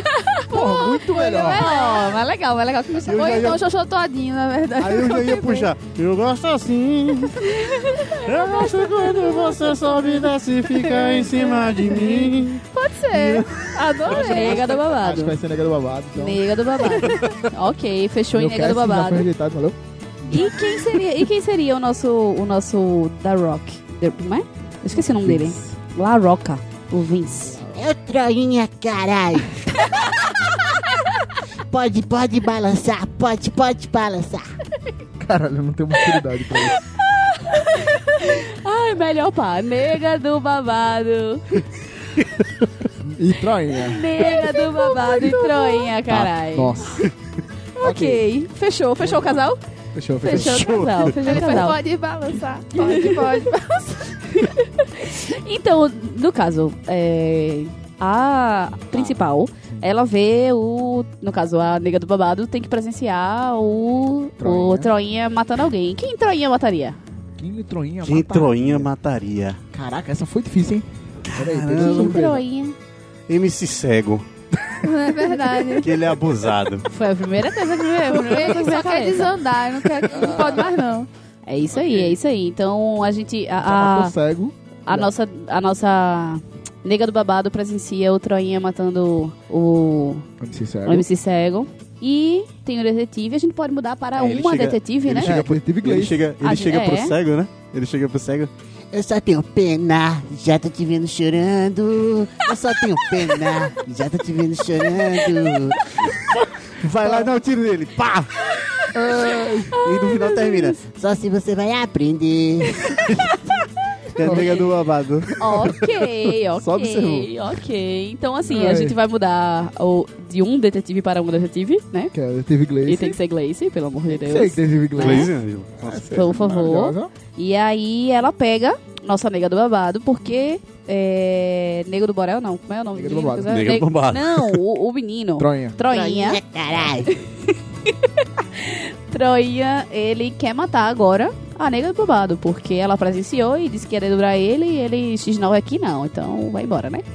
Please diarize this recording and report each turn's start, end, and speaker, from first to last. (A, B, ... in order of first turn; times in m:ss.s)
0:00.3-0:03.1 A
0:00.5-0:01.7 B
0:00.5-0:05.7 C
0:03.0-0:03.7 D
0:04.8-0:13.8 D
0:10.9-0:14.7 C
0:14.0-0:16.6 B
0:14.0-0:15.3 A
0:16.2-0:19.3 A
0:18.3-0:20.7 B
0:20.3-0:27.6 A
0:24.9-0:25.8 B
0:27.6-0:30.1 E
0:31.6-0:34.4 E
0:35.2-0:36.8 B
0:37.0-0:41.6 A
0:43.0-0:44.1 B
0:43.8-0:46.8 A
0:44.4-0:45.9 C
0:46.1-0:47.1 B
0:47.8-0:49.6 A
0:47.8-0:48.2 B
0:49.0-0:49.4 B
0:49.9-0:50.8 B
0:50.2-0:51.8 A
0:50.4-0:51.1 D
0:51.0-0:54.2 C
0:52.7-0:53.2 A
0:54.4-1:07.0 A
1:04.4-1:04.9 B
1:07.4-1:08.9 B
1:08.0-1:09.6 D
1:09.7-1:12.4 B
1:11.2-1:12.2 D
1:11.8-1:12.8 A
1:13.3-1:14.2 D
1:14.8-1:15.9 C
1:15.8-1:16.9 D
1:16.9-1:19.4 A
1:18.0-1:21.1 C
1:20.1-1:20.4 A
1:20.2-1:20.6 B
1:21.4-1:24.1 A
1:21.8-1:22.1 B
1:23.6-1:25.1 B
1:24.8-1:30.2 A
1:30.4-1:31.1 B
1:30.8-1:35.3 A
1:34.1-1:38.5 D
1:35.2-1:36.2 B
1:36.4-1:37.2 A
1:38.9-1:45.8 E
1:46.8-1:48.3 D
1:48.9-1:49.8 B
1:49.8-1:50.8 D
1:50.3-1:52.9 E
1:54.1-1:55.4 D
1:54.2-1:54.8 B
1:55.4-2:02.1 A
1:55.4-1:55.8 B
1:56.6-1:57.3 D
1:58.5-1:59.0 B
2:02.1-2:03.2 B
2:02.8-2:05.3 A
2:04.1-2:07.1 B
2:05.0-2:06.0 D
2:06.1-2:16.4 A
2:12.9-2:13.8 B
2:13.5-2:14.6 D
2:15.4-2:15.8 B
2:15.9-2:17.2 E
2:17.1-2:27.0 A